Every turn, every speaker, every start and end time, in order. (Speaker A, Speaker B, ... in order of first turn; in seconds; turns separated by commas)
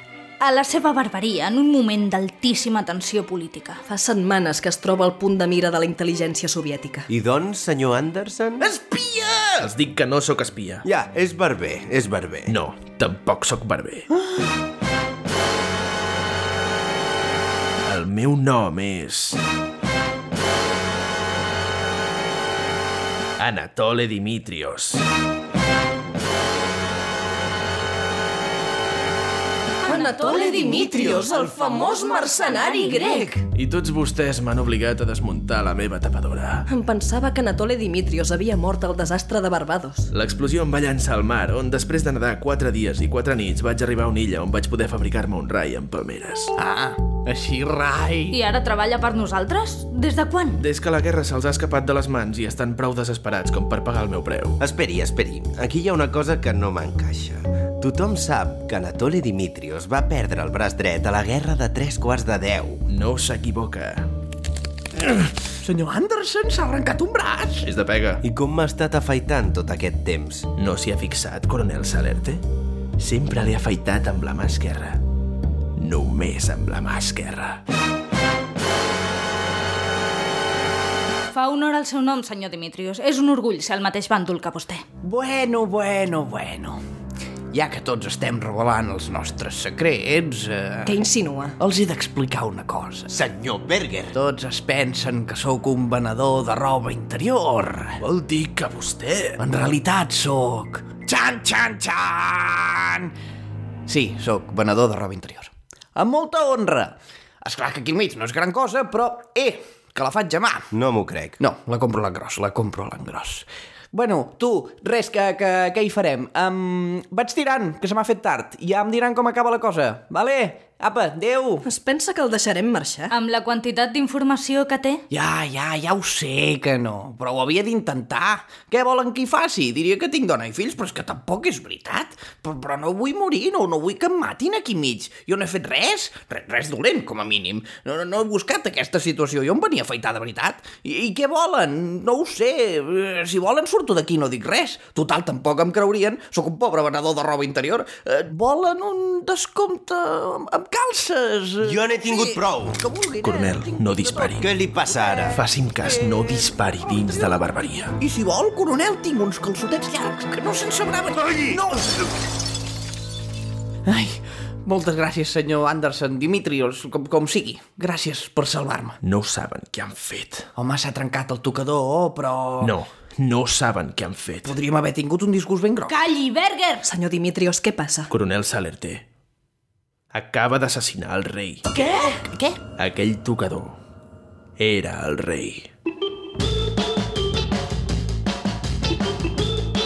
Speaker A: 0.4-3.8, Speaker B: 3.9-7.1, Speaker C: 7.1-8.7, Speaker D: 8.6-9.7, Speaker E: 9.6-10.8, Speaker C: 10.8-12.5, Speaker E: 12.5-14.1, Speaker D: 14.2-14.5, Speaker E: 17.8-19.4, Speaker E: 23.4-25.0, Speaker B: 29.8-33.4, Speaker A: 29.8-33.2, Speaker D: 30.9-31.5, Speaker E: 33.5-36.6, Speaker B: 36.7-40.1, Speaker E: 40.1-46.5, Speaker D: 46.6-48.4, Speaker A: 48.3-50.6, Speaker E: 50.6-54.6, Speaker C: 54.6-62.8, Speaker E: 62.9-64.1, Speaker E: 65.0-65.3, Speaker D: 65.6-67.7, Speaker E: 67.6-68.2, Speaker C: 68.2-70.5, Speaker E: 70.5-72.4, Speaker E: 73.0-75.0, Speaker E: 75.8-77.6, Speaker A: 81.3-84.8, Speaker D: 85.0-86.8, Speaker D: 87.5-91.0, Speaker B: 90.8-91.6, Speaker D: 91.6-93.1, Speaker C: 93.1-94.2, Speaker D: 94.1-98.0, Speaker E: 98.0-99.4, Speaker D: 99.4-103.1, Speaker D: 103.9-110.7, Speaker C: 110.7-111.4, Speaker D: 111.4-121.6, Speaker B: 121.6-123.1, Speaker A: 123.1-125.0, Speaker D: 125.1-162.1, Speaker C: 151.6-152.8, Speaker E: 153.2-154.5, Speaker C: 154.4-155.4, Speaker E: 155.3-157.9, Speaker D: 163.9-169.0, Speaker E: 169.0-170.5, Speaker D: 170.6-172.8, Speaker E: 172.6-174.6, Speaker D: 174.4-176.0, Speaker A: 175.9-176.9, Speaker B: 176.8-178.1, Speaker E: 178.1-179.0, Speaker E: 180.1-181.6, Speaker D: 181.7-182.6, Speaker E: 182.8-183.8, Speaker E: 184.6-185.7